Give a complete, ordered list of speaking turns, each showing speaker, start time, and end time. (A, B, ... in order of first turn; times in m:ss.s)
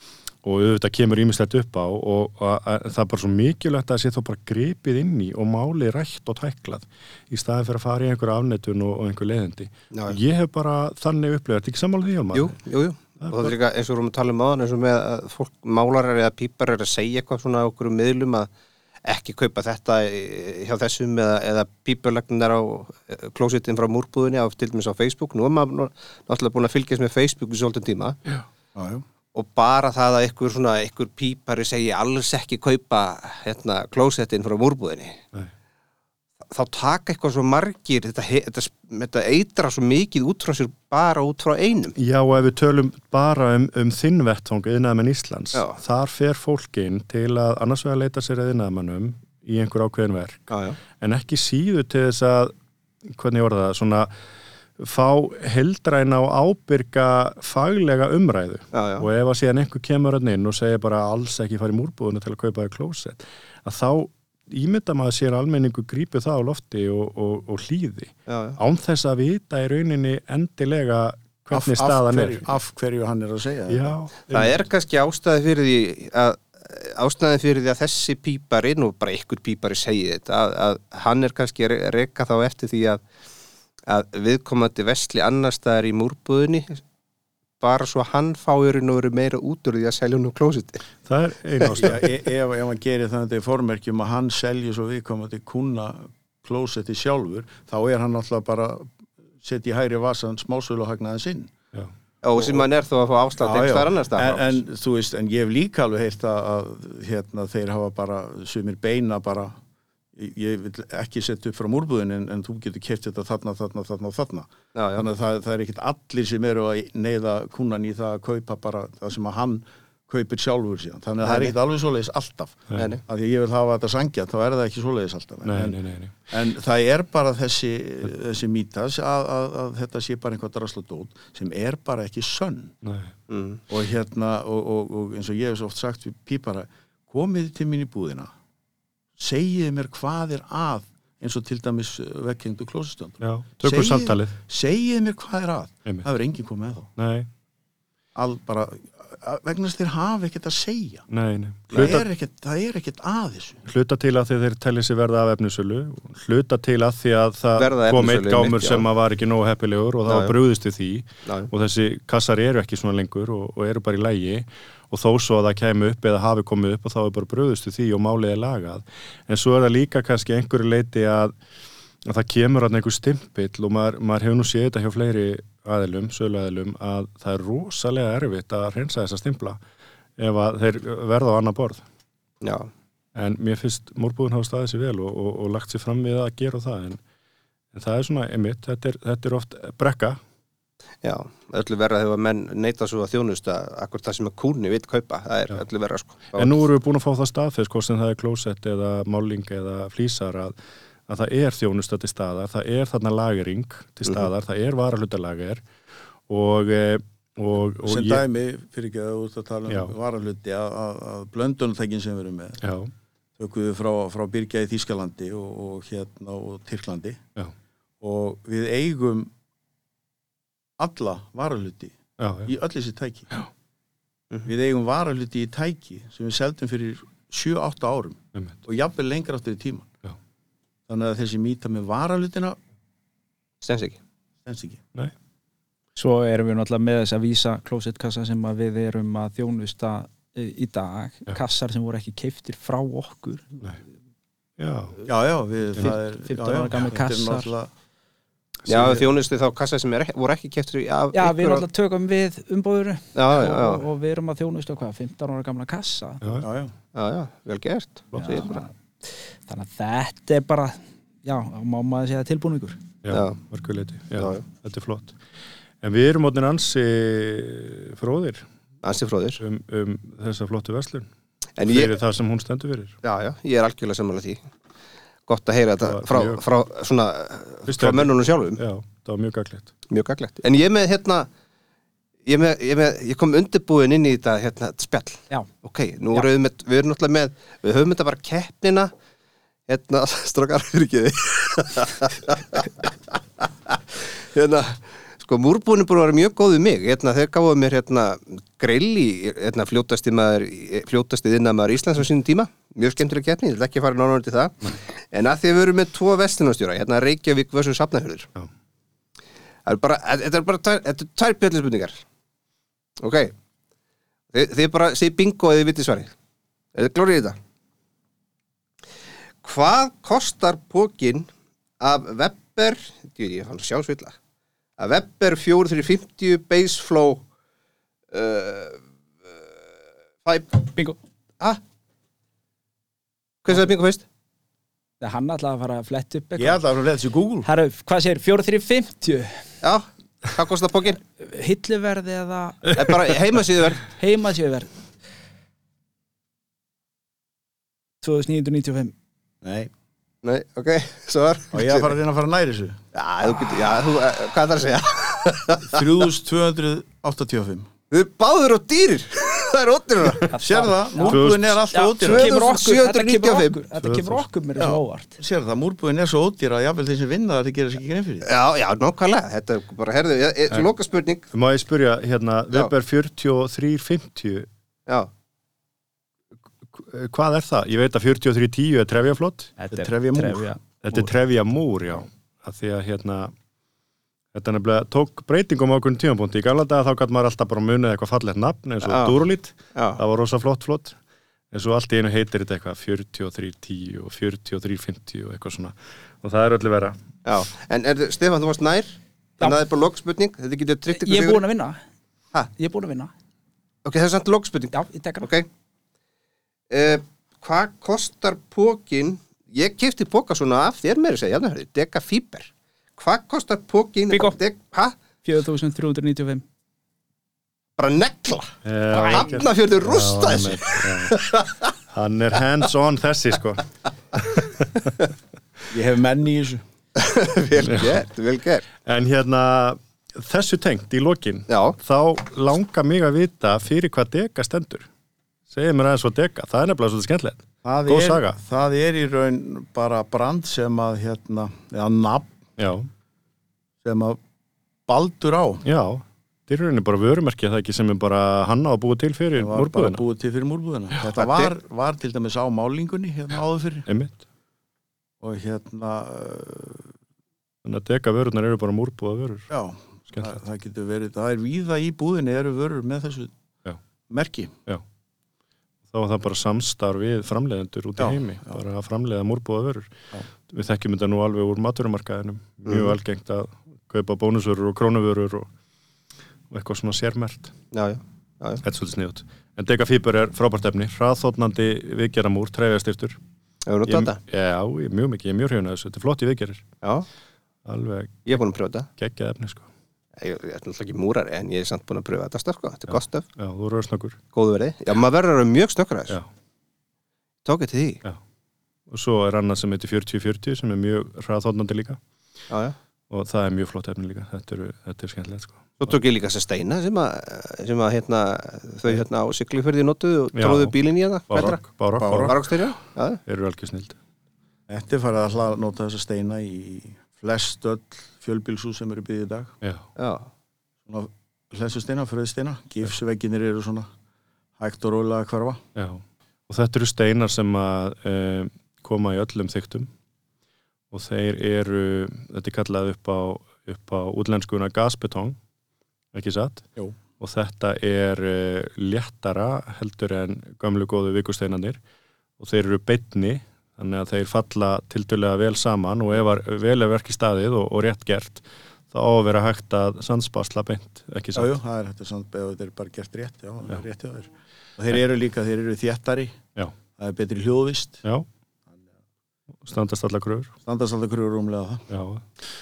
0:00.4-0:12.6 A
0:09.9-0:10.2 B
0:12.3-0:18.5 B
0:13.2-0:13.5 A
0:19.0-0:28.2 B
0:28.8-0:29.0 C
0:29.3-0:35.2 B
0:36.5-0:42.0 B
0:42.0-0:52.5 A
0:50.5-0:50.8 B
0:53.1-0:54.1 A
0:54.8-1:12.5 A
0:58.7-0:59.1 B
1:08.3-1:08.6 B
1:11.5-1:14.0 C
1:13.7-1:14.6 A
1:14.3-1:23.0 B
1:23.9-1:26.8 B
1:27.6-1:30.8 B
1:31.1-1:32.1 A
1:31.7-1:41.5 C
1:42.2-1:44.6 B
1:42.4-1:42.6 C
1:43.4-1:49.6 C
1:50.2-2:05.8 C
1:54.8-1:55.1 B
2:01.2-2:01.6 B
2:02.7-2:03.0 A
2:02.8-2:03.0 B
2:05.4-2:06.2 A
2:06.3-2:12.8 C
2:12.8-2:13.1 A
2:13.3-2:13.6 B
2:13.7-2:18.3 C
2:19.2-2:26.9 C
2:23.2-2:24.4 A
2:27.0-2:27.3 A
2:28.2-2:31.0 C
2:31.1-2:32.1 A
2:31.7-2:33.6 C
2:33.6-2:51.4 A
2:37.6-2:38.8 B
2:40.1-2:40.3 B
2:52.0-2:59.6 A
3:00.2-3:01.8 A
3:02.4-3:02.7 B
3:03.2-3:07.0 A
3:07.7-3:10.2 A
3:11.0-3:16.6 B
3:16.3-3:20.6 A
3:21.1-3:25.6 A
3:26.3-3:28.2 A
3:27.8-3:32.6 C
3:32.6-3:32.9 A
3:33.4-3:37.2 C
3:38.0-3:39.3 C
3:40.8-3:43.3 C
3:42.2-3:42.5 A
3:44.4-3:49.9 C
3:48.3-3:48.6 A
3:50.9-3:52.6 C
3:53.6-3:54.0 B
3:54.4-3:54.8 C
3:56.0-4:03.6 D
4:04.6-4:05.0 A
4:05.1-4:07.7 C
4:05.8-4:07.5 D
4:08.7-4:11.6 B
4:08.7-4:09.0 C
4:11.1-4:16.2 D
4:13.2-4:13.8 B
4:16.2-4:16.5 A
4:16.4-4:16.7 C
4:17.0-4:18.6 B
4:18.1-4:18.7 D
4:19.5-4:22.8 D
4:23.0-4:25.2 A
4:23.1-4:23.4 B
4:24.2-4:24.4 B
4:25.8-4:28.4 A
4:28.8-4:29.4 B
4:29.4-4:31.1 A
4:31.6-4:32.0 B
4:31.6-4:33.0 A
4:33.0-4:34.4 B
4:35.3-4:38.6 B
4:35.8-4:36.4 A
4:37.7-4:39.7 A
4:39.9-4:41.3 B
4:42.3-4:48.9 B
4:49.7-5:08.3 B
5:09.7-5:12.0 B
5:13.0-5:13.3 B
5:14.3-5:16.1 B
5:16.8-5:17.4 B
5:19.4-5:21.3 B
5:21.8-5:24.2 B
5:24.8-5:27.2 B
5:28.1-5:29.3 B
5:30.2-5:30.7 B
5:33.4-5:34.0 B
5:35.0-5:36.6 D
5:36.4-5:37.5 C
5:37.4-5:39.4 D
5:39.6-5:41.0 B
5:41.0-5:43.0 D
5:42.7-5:43.9 B
5:43.8-5:44.7 D
5:48.0-5:48.9 D
5:49.4-5:49.7 C
5:50.2-5:51.9 B
5:51.5-5:52.8 C
5:52.9-5:55.8 B
5:55.7-5:57.7 C
5:57.9-6:00.4 B
6:00.3-6:01.2 D
6:00.4-6:02.3 C
6:01.1-6:01.6 A
6:01.7-6:05.2 D
6:02.0-6:03.6 B
6:03.8-6:04.3 A
6:04.6-6:08.3 C
6:08.2-6:11.3 B
6:11.3-6:14.5 A
6:16.7-6:19.5 A
6:19.6-6:21.0 D
6:19.7-6:20.5 C
6:20.8-6:23.3 A
6:24.3-6:31.0 A
6:28.8-6:29.2 B
6:29.7-6:30.0 B
6:31.5-6:37.0 A
6:37.2-6:41.4 B
6:40.9-6:41.8 D
6:42.5-6:43.1 D
6:43.8-6:45.5 B
6:44.7-6:45.3 D
6:46.7-6:55.0 B
6:54.1-6:54.4 D
6:55.2-6:56.4 D
6:57.8-7:01.7 B
6:58.6-7:01.2 A
6:58.9-6:59.3 D
7:01.9-7:03.7 A
7:04.4-7:04.8 A
7:05.7-7:06.6 C
7:07.0-7:08.6 B
7:07.6-7:08.0 A
7:08.8-7:14.9 A
7:11.5-7:11.8 B
7:15.5-7:18.4 A
7:17.6-7:22.3 C
7:22.6-7:22.9 A
7:23.8-7:24.2 C
7:24.9-7:25.6 C
7:25.6-7:30.0 A
7:29.4-7:33.9 C
7:31.1-7:31.5 B
7:33.9-7:34.2 A
7:35.2-7:36.9 C
7:37.6-7:39.5 A
7:39.5-7:43.3 C
7:44.1-7:44.5 C
7:45.9-7:55.5 A
7:48.0-7:48.6 C
7:52.7-7:53.0 B
7:56.5-7:57.5 A
7:57.7-7:58.6 B
7:58.6-8:03.2 A
8:03.7-8:04.2 B
8:03.9-8:06.7 A
8:07.7-8:08.4 A
8:08.3-8:08.9 B
8:09.0-8:09.7 A
8:10.2-8:13.3 B
8:12.9-8:14.2 A
8:14.3-8:16.2 B
8:17.4-8:18.0 B
8:18.9-8:22.0 A
8:22.5-8:22.8 B
8:23.1-8:25.9 A
8:25.8-8:31.6 B
8:30.3-8:30.8 A
8:31.3-8:32.4 A
8:31.4-8:32.4 C
8:32.2-8:33.2 B
8:33.2-8:34.0 A
8:34.7-8:39.6 C
8:40.0-8:40.3 B
8:40.9-8:43.9 C
8:44.6-8:45.6 C
8:45.8-8:49.9 A
8:50.9-8:55.4 A
8:56.1-8:56.7 A
8:57.2-9:01.8 A
9:02.4-9:11.6 A
9:11.4-9:16.4 C
9:17.0-9:18.0 C
9:19.6-9:20.5 A
9:20.6-9:21.9 C
9:21.9-9:22.3 A